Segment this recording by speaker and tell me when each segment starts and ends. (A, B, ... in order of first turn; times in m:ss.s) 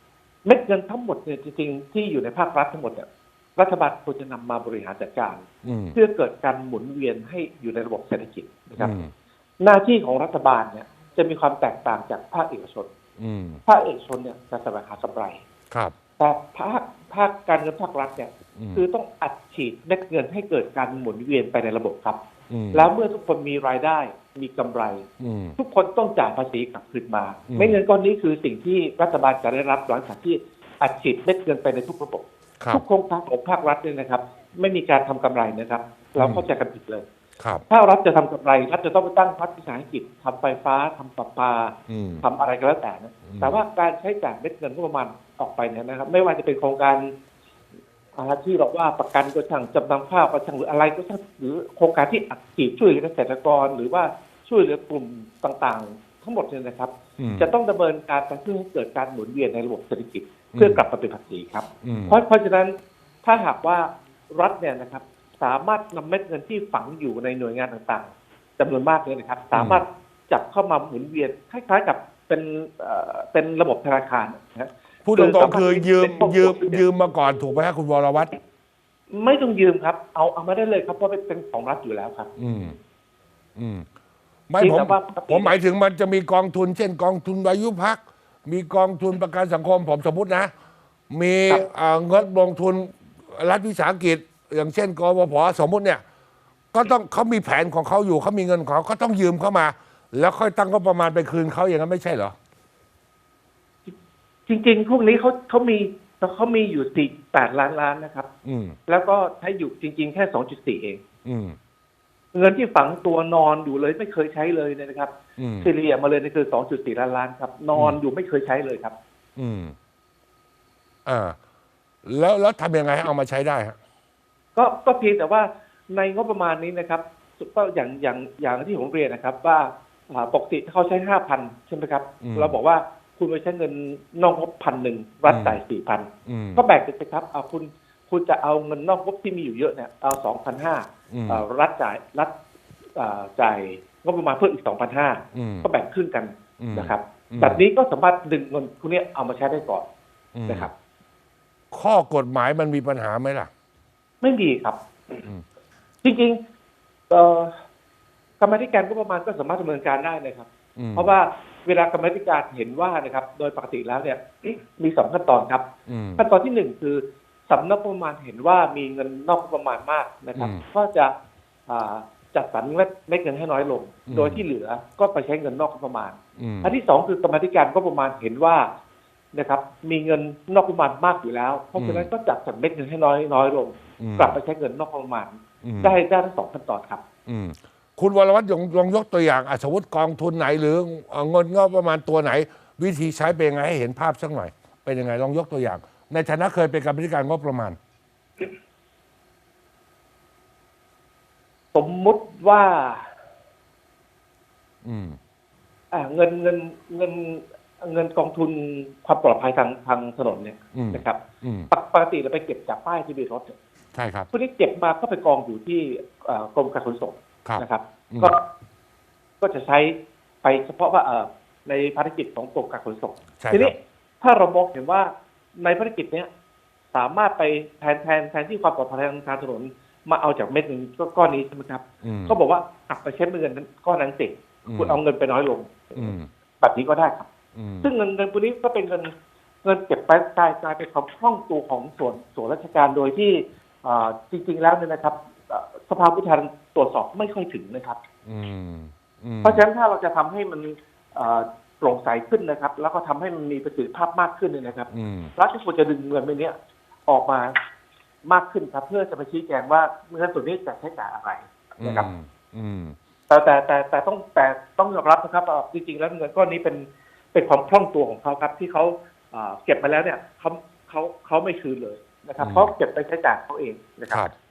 0:00.4-0:05.4 A
0:05.6-0:06.0 B
0:05.9-0:08.9 A
0:08.8-0:09.1 B
0:09.6-0:12.9 A
0:13.2-0:13.6 B
0:13.7-0:15.4 A
0:16.2-0:22.2 A
0:18.6-0:18.8 B
0:22.5-0:22.9 B
0:22.7-0:25.0 A
0:25.2-0:25.6 B
0:25.6-0:37.0 A
0:27.5-0:27.8 B
0:36.2-0:36.4 B
0:37.7-0:47.1 A
0:41.9-0:42.2 B
0:43.3-0:43.6 B
0:48.1-1:16.8 A
0:57.2-0:57.5 B
1:00.5-1:00.8 B
1:01.8-1:02.2 B
1:09.5-1:09.8 B
1:15.0-1:18.3 B
1:19.1-1:22.3 A
1:22.4-1:22.8 B
1:23.6-1:23.9 B
1:24.5-1:30.5 B
1:24.6-1:25.6 A
1:31.1-1:36.0 B
1:36.7-1:42.3 B
1:44.5-1:48.3 A
1:48.4-1:48.8 B
1:48.9-1:51.0 A
1:51.2-1:51.6 B
1:52.3-1:55.1 A
1:55.4-1:55.7 B
1:55.6-1:58.9 A
1:57.7-1:58.0 B
1:59.4-1:59.7 B
2:01.0-2:01.4 B
2:02.0-2:03.8 B
2:04.6-2:22.3 A
2:12.2-2:12.6 B
2:15.3-2:15.6 B
2:16.2-2:16.6 B
2:21.1-2:21.4 B
2:23.0-2:29.8 A
2:25.3-2:25.7 B
2:26.6-2:27.6 B
2:30.3-2:30.7 B
2:31.7-2:33.5 B
2:34.2-2:35.2 A
2:36.0-2:36.4 A
2:37.1-2:37.5 A
2:38.4-2:45.6 A
2:40.8-2:41.1 B
2:45.9-2:46.2 B
2:46.2-2:51.1 A
2:50.3-2:50.6 B
2:51.7-2:58.7 A
2:54.1-2:54.4 B
2:56.4-2:56.7 B
2:59.3-3:07.0 A
3:01.8-3:02.1 B
3:04.0-3:04.4 B
3:05.6-3:06.0 B
3:07.3-3:17.8 B
3:21.7-3:23.1 A
3:24.8-3:25.2 B
3:25.9-3:31.2 A
3:30.7-3:31.7 B
3:31.7-3:33.5 A
3:33.9-3:34.3 B
3:34.3-3:38.4 A
3:37.4-3:38.4 B
3:39.4-3:46.3 A
3:43.4-3:43.8 B
3:46.9-3:57.2 A
3:52.0-3:52.4 B
3:54.6-3:55.0 B
3:56.0-3:56.3 B
3:57.5-3:57.9 B
3:57.8-3:59.1 A
3:59.6-4:08.0 A
4:08.2-4:09.6 B
4:09.4-4:16.5 A
4:14.9-4:15.3 B
4:17.1-4:17.5 A
4:18.2-4:22.1 A
4:21.8-4:23.0 B
4:23.3-4:34.3 A
4:32.4-4:32.7 B